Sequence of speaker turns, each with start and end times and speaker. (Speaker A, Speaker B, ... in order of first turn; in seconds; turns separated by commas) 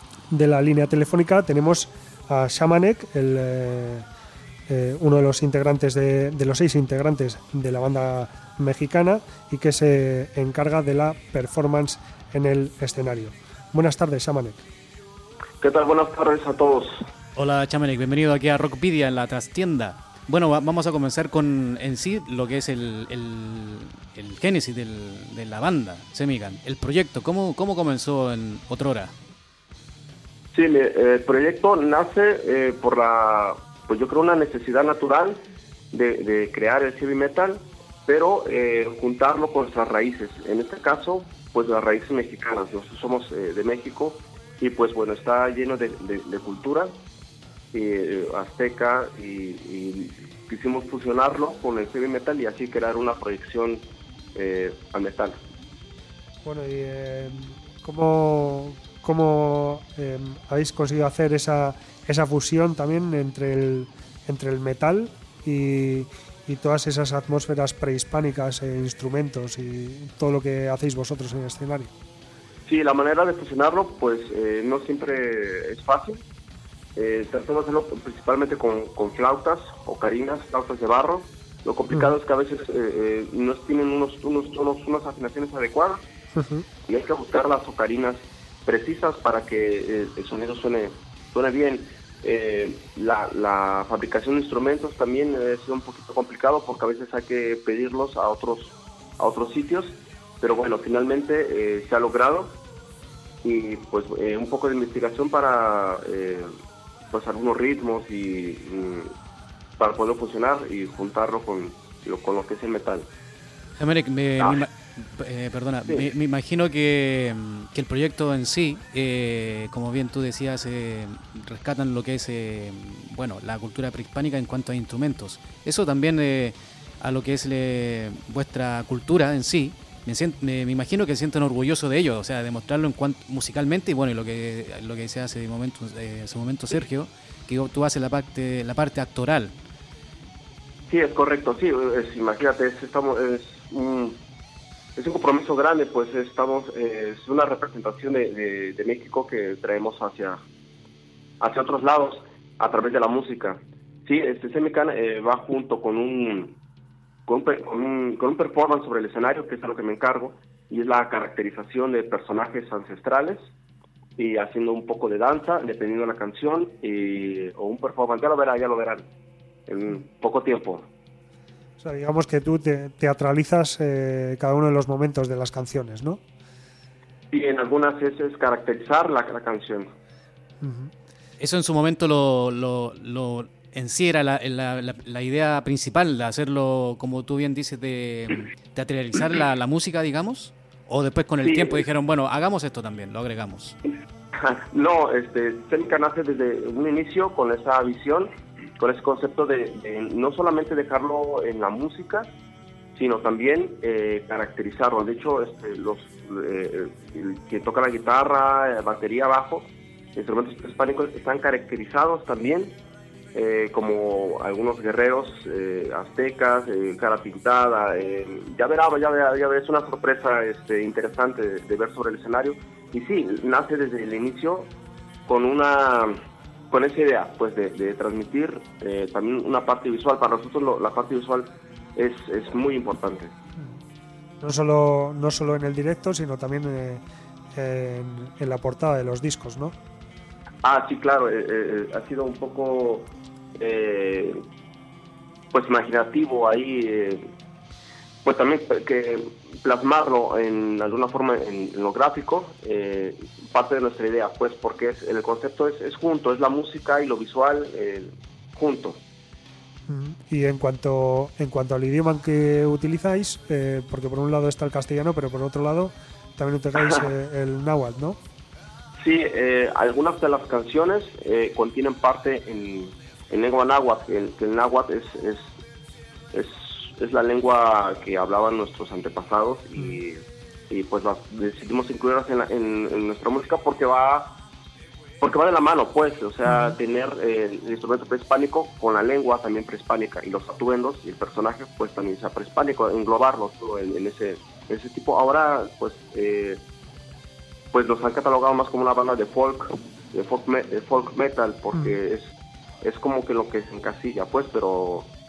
Speaker A: 0.3-4.1, Speaker A: 4.7-14.6, Speaker B: 15.6-17.1, Speaker C: 17.4-29.1, Speaker B: 30.5-35.4, Speaker B: 35.9-46.9, Speaker B: 47.7-55.4, Speaker A: 56.4-71.9, Speaker B: 72.7-76.2, Speaker B: 77.0-86.0, Speaker A: 86.3-86.7, Speaker B: 86.8-102.6, Speaker B: 103.4-106.5, Speaker B: 107.1-109.1, Speaker B: 109.8-113.1, Speaker C: 113.8-139.5, Speaker B: 114.4-114.6, Speaker B: 140.9-144.2, Speaker B: 145.0-150.4, Speaker B: 151.4-156.6, Speaker B: 157.3-163.4, Speaker B: 164.2-169.1, Speaker B: 169.7-170.9, Speaker A: 171.8-176.2, Speaker B: 177.3-179.9, Speaker A: 180.6-180.9, Speaker C: 181.4-193.8, Speaker B: 191.4-191.8, Speaker B: 194.4-202.3, Speaker B: 202.9-212.7, Speaker B: 213.3-224.7, Speaker B: 225.3-226.2, Speaker B: 226.7-233.3, Speaker A: 234.4-237.0, Speaker A: 237.5-239.8, Speaker B: 240.6-244.4, Speaker B: 245.5-247.3, Speaker B: 248.2-259.0, Speaker A: 259.9-268.2, Speaker B: 269.0-275.5, Speaker B: 276.3-284.4, Speaker B: 285.2-296.6, Speaker B: 297.7-302.3, Speaker B: 302.8-305.1